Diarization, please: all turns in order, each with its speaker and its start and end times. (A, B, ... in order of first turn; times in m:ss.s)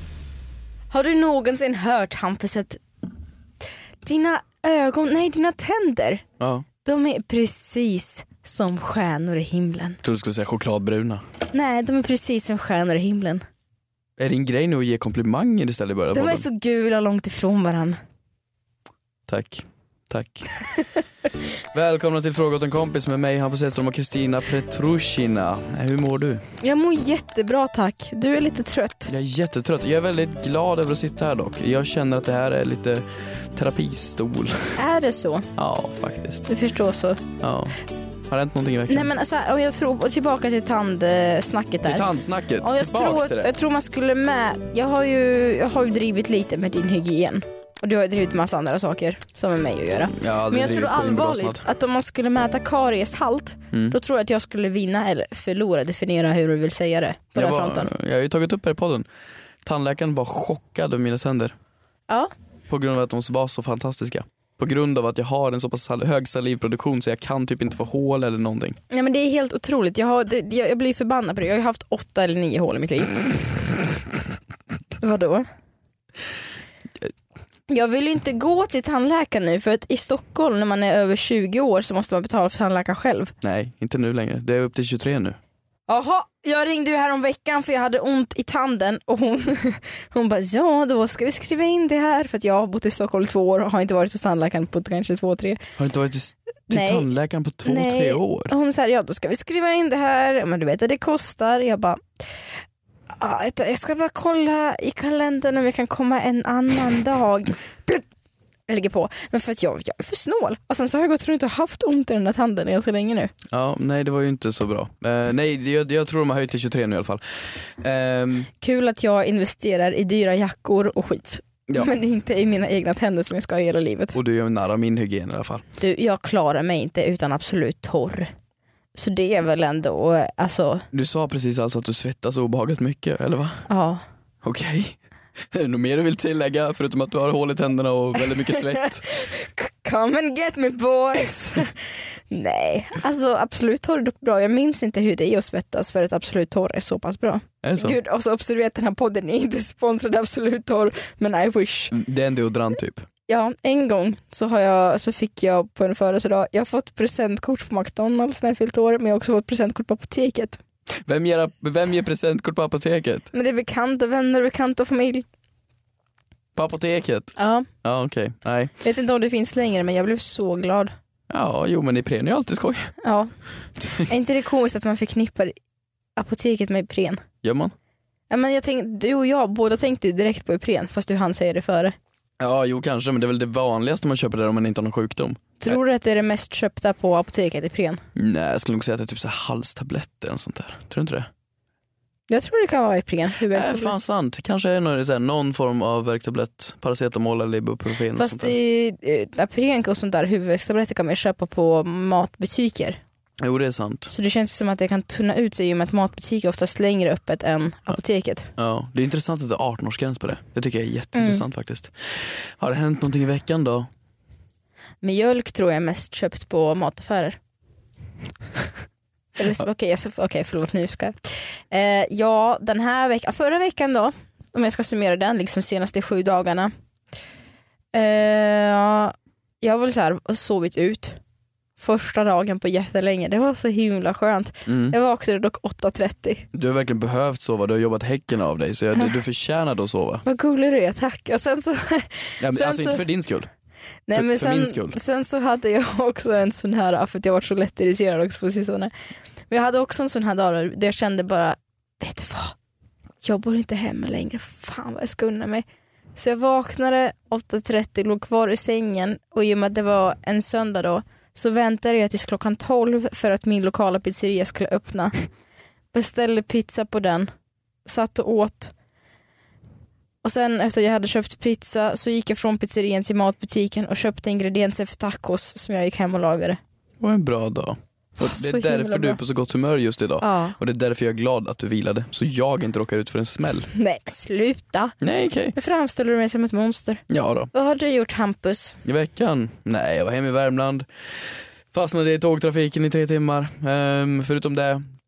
0:00.9-0:02.8 A
0:04.0-0:06.2 A
0:06.4-0:06.6 B
0:06.8-0:10.0 A
0:10.0-0:11.2 B
0:11.5-0:13.4 A
0:14.2-0:16.4 B
0:16.1-0:18.0 A
0:19.3-0:20.5 B
0:21.7-0:26.4 B
0:26.6-0:29.1 A
0:29.1-0:34.8 B
0:34.8-0:35.5 A
0:35.6-0:36.5 B
0:36.4-0:37.2 A
0:37.4-0:37.8 B
0:38.3-0:39.1 B
0:38.9-0:57.9 A
0:41.8-0:43.5 B
0:50.1-0:51.6 B
0:57.4-0:59.0 B
0:59.6-1:01.5 B
1:02.7-1:08.8 B
1:08.9-1:13.7 A
1:15.0-1:15.4 A
1:17.7-1:23.3 A
1:23.4-1:25.4 B
1:25.9-1:35.6 A
1:35.8-1:38.5 B
1:36.7-1:37.1 A
1:37.6-1:42.0 A
1:43.2-1:48.0 A
1:48.7-1:53.3 A
1:53.5-1:57.2 B
1:57.8-1:58.5 B
1:58.6-2:04.2 A
2:04.1-2:05.6 B
2:05.8-2:08.3 A
2:08.9-2:10.8 A
2:10.9-2:13.7 B
2:13.7-2:14.0 A
2:14.4-2:15.0 B
2:15.5-2:19.1 B
2:18.2-2:31.9 A
2:27.6-2:28.0 B
2:31.9-2:33.0 B
2:33.3-2:40.6 A
2:41.0-2:43.3 B
2:43.3-2:45.2 A
2:46.6-2:48.7 B
2:47.4-2:47.7 A
2:48.8-2:50.9 A
2:51.3-2:52.9 B
2:53.0-2:53.3 A
2:53.9-2:55.5 A
2:56.2-2:57.2 A
2:57.4-2:57.7 B
2:58.3-3:02.0 A
3:02.4-3:05.8 B
3:05.6-3:08.0 A
3:08.2-3:11.3 B
3:12.3-3:14.0 A
3:13.5-3:18.6 B
3:18.1-3:23.0 A
3:23.4-3:24.1 B
3:24.1-3:28.5 A
3:28.6-3:33.9 B
3:31.1-3:31.4 A
3:35.0-3:37.4 A
3:39.4-3:46.7 A
3:47.9-3:51.2 A
3:51.8-3:56.5 A
3:54.6-3:55.0 B
3:56.5-4:00.2 B
4:00.2-4:03.0 A
4:02.4-4:03.5 B
4:04.1-4:08.9 A
4:04.1-4:05.0 B
4:09.5-4:12.6 A
4:13.2-4:25.3 A
4:25.9-4:27.3 A
4:27.8-4:28.7 A
4:30.2-4:36.6 A
4:37.0-4:43.7 B
4:38.2-4:39.2 A
4:40.2-4:40.6 A
4:43.7-4:45.0 A
4:45.0-4:45.5 B
4:45.5-4:48.8 A
4:47.1-4:47.5 B
4:48.8-4:50.8 B
4:51.7-4:54.8 B